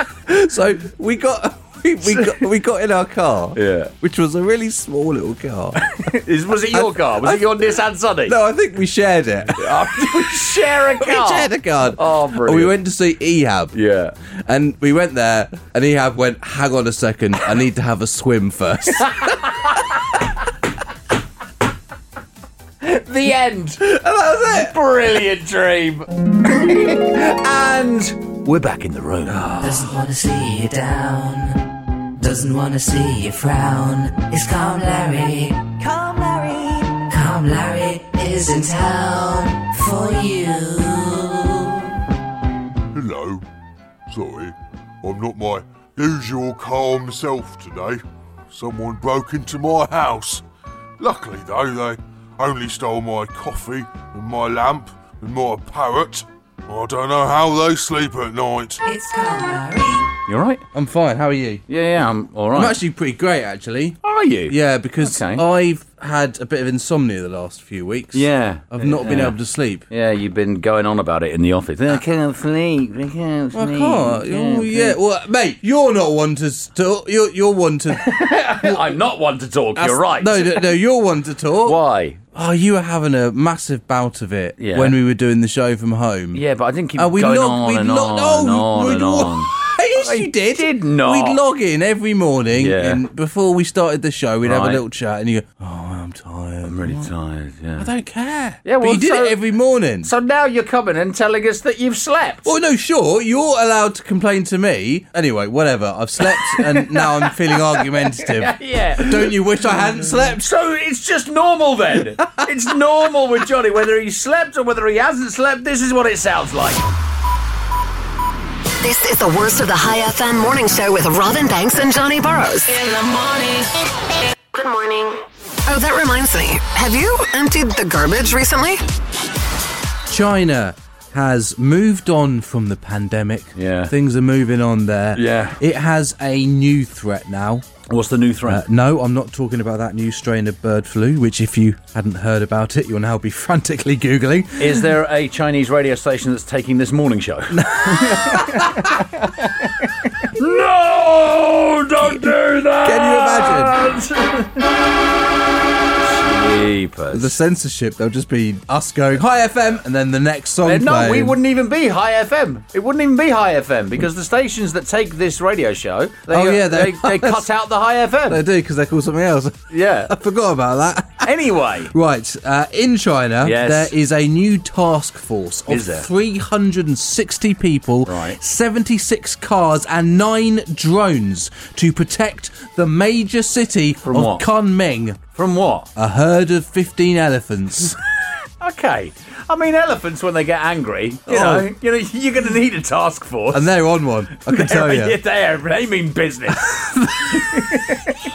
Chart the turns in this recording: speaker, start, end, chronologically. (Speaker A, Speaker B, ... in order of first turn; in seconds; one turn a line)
Speaker A: 0.3-5.9
Speaker B: 2.0-2.5
Speaker B: 3.5-3.9
Speaker B: 5.9-8.3
Speaker A: 6.7-7.6
Speaker A: 8.3-9.7
Speaker B: 9.6-12.8
Speaker A: 11.0-13.7
Speaker B: 13.7-14.2
Speaker A: 14.5-19.4
Speaker B: 19.0-19.7
Speaker B: 22.8-23.8
Speaker A: 23.8-24.7
Speaker B: 24.5-29.9
Speaker A: 29.3-31.4
Speaker C: 30.3-31.1
Speaker A: 32.2-34.1
Speaker C: 34.1-40.7
Speaker A: 37.4-38.1
Speaker A: 39.8-40.1
Speaker A: 40.8-41.3
Speaker D: 43.0-43.4
Speaker D: 44.1-48.0
Speaker D: 48.5-50.4
Speaker D: 51.0-58.8
Speaker C: 58.9-60.1
Speaker B: 60.3-60.6
Speaker A: 60.7-61.6
Speaker B: 61.7-62.8
Speaker A: 62.5-69.8
Speaker B: 64.0-65.5
Speaker B: 68.1-69.4
Speaker B: 69.9-75.0
Speaker A: 73.5-78.9
Speaker B: 77.9-80.8
Speaker A: 79.8-81.8
Speaker B: 81.6-82.2
Speaker A: 82.3-86.4
Speaker B: 84.6-85.0
Speaker B: 86.3-91.4
Speaker A: 87.0-97.1
Speaker B: 92.5-93.0
Speaker B: 94.4-94.8
Speaker B: 96.6-97.9
Speaker A: 97.8-100.1
Speaker B: 98.7-99.4
Speaker B: 100.0-102.5
Speaker A: 102.5-110.5
Speaker B: 106.2-116.9
Speaker E: 118.8-122.7
Speaker C: 122.7-123.7
Speaker E: 124.5-128.8
Speaker A: 130.1-137.7
Speaker B: 133.6-133.9
Speaker B: 135.1-135.6
Speaker B: 137.9-138.6
Speaker A: 138.5-144.9
Speaker B: 144.6-149.3
Speaker A: 147.5-148.9
Speaker B: 150.2-154.7
Speaker A: 152.8-153.8
Speaker B: 156.0-157.4
Speaker A: 157.1-161.4
Speaker B: 160.6-168.4
Speaker A: 166.3-167.4
Speaker A: 168.3-171.3
Speaker B: 169.7-170.1
Speaker B: 171.2-171.9
Speaker A: 171.9-185.2
Speaker B: 173.4-173.9
Speaker B: 175.7-176.1
Speaker B: 178.1-178.4
Speaker B: 184.0-184.5
Speaker B: 185.3-185.9
Speaker A: 186.0-188.0
Speaker B: 188.6-193.7
Speaker A: 191.3-191.7
Speaker A: 193.5-195.2
Speaker B: 194.4-198.0
Speaker A: 197.2-197.6